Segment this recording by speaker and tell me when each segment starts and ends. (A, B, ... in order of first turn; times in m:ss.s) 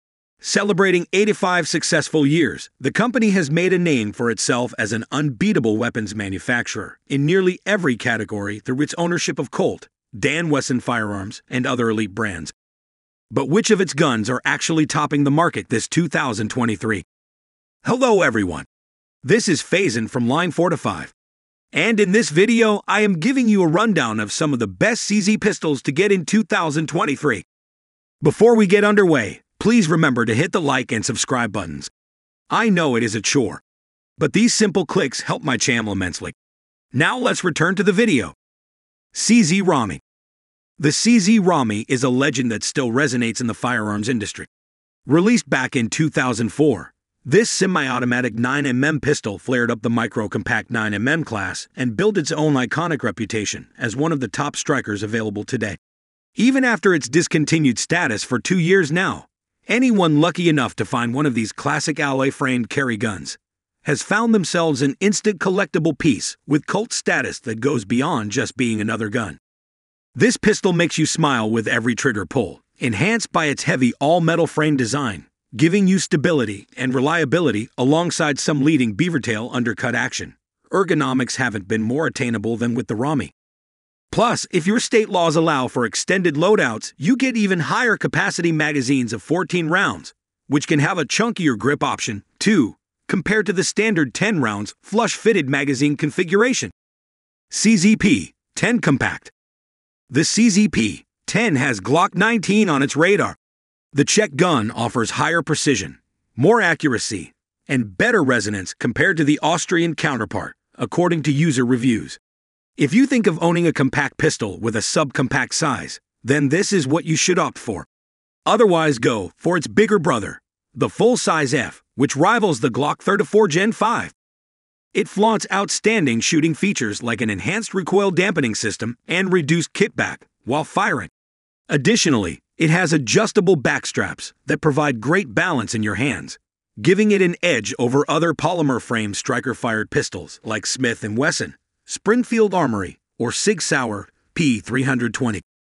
0:00.4-0:12.5 A
0:13.3-0:17.0 A
0:17.8-0:18.7 A
0:19.2-0:21.1 A
0:21.7-0:27.4 A
0:28.2-0:31.9 A
0:32.5-0:33.6 A
0:34.2-0:36.3 A
0:36.9-0:38.4 A
0:39.1-0:40.0 A
0:40.8-0:44.5 A
0:45.0-0:55.8 A
0:56.4-1:09.4 A
1:10.1-1:23.3 A
1:24.1-1:36.7 A
1:37.5-1:39.3 A
1:40.1-1:43.4 A
1:43.9-1:52.2 A
1:52.8-1:57.9 A
1:58.4-2:04.1 A
2:04.9-2:11.1 A
2:11.7-2:25.4 A